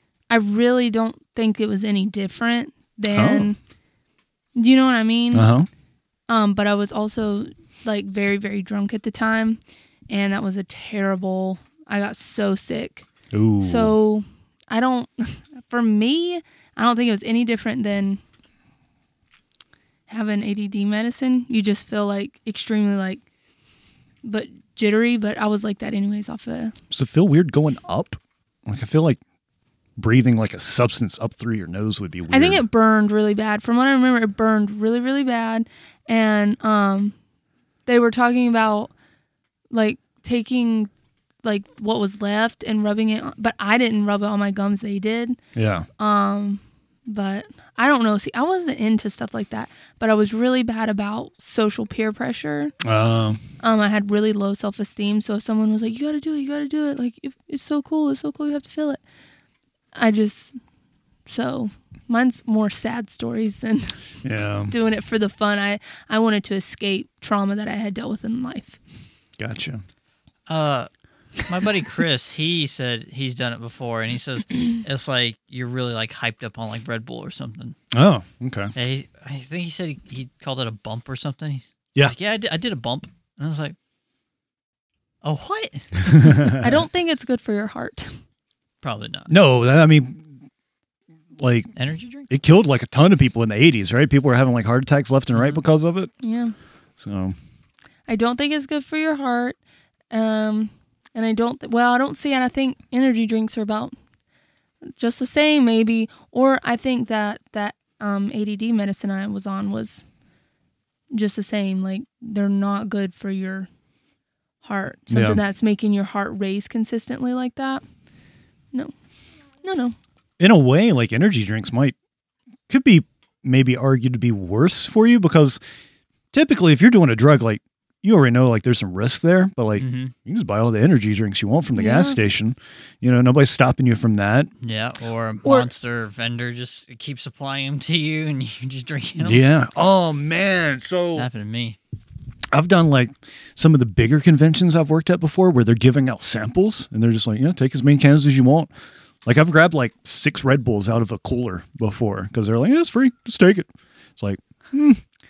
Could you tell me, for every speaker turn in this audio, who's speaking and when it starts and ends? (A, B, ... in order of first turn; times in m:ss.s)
0:00.3-0:03.6 A
0:03.1-0:03.5 B
0:04.6-0:05.5 A
0:05.3-0:05.7 B
0:06.3-0:13.1 A
0:13.3-0:13.9 B
0:13.6-0:18.2 A
0:20.1-0:23.2 A
0:24.2-0:26.8 A
0:26.9-0:29.2 B
0:30.0-0:32.6 B
0:32.3-0:37.2 A
0:37.9-0:38.9 A
0:39.7-0:40.9 A
0:41.4-0:45.4 A
0:45.6-0:45.9 B
0:46.0-0:52.7 A
0:52.8-0:53.4 B
0:53.6-0:59.0 A
0:59.9-1:00.6 A
1:01.3-1:08.8 A
1:04.2-1:04.7 B
1:09.4-1:09.8 B
1:10.5-1:10.9 C
1:11.4-1:17.8 C
1:17.9-1:18.7 B
1:18.8-1:23.8 C
1:25.2-1:26.3 C
1:26.1-1:26.7 B
1:26.6-1:28.2 A
1:28.8-1:29.3 C
1:29.3-1:30.4 B
1:31.4-1:31.7 B
1:31.8-1:32.3 C
1:32.3-1:36.1 B
1:35.3-1:35.6 C
1:36.2-1:36.6 A
1:37.0-1:37.4 B
1:38.1-1:39.6 A
1:40.1-1:44.0 A
1:45.0-1:50.1 A
1:51.1-1:53.7 A
1:54.6-1:57.8 A
1:55.1-1:55.4 B
1:59.6-2:00.0 A
2:00.4-2:02.0 B
2:02.7-2:05.6 B
2:06.3-2:14.5 B
2:09.8-2:10.1 C
2:11.8-2:12.2 A
2:14.6-2:19.4 C
2:15.4-2:15.7 A
2:19.2-2:21.3 B
2:21.2-2:21.8 C
2:22.5-2:28.7 B
2:29.2-2:35.0 B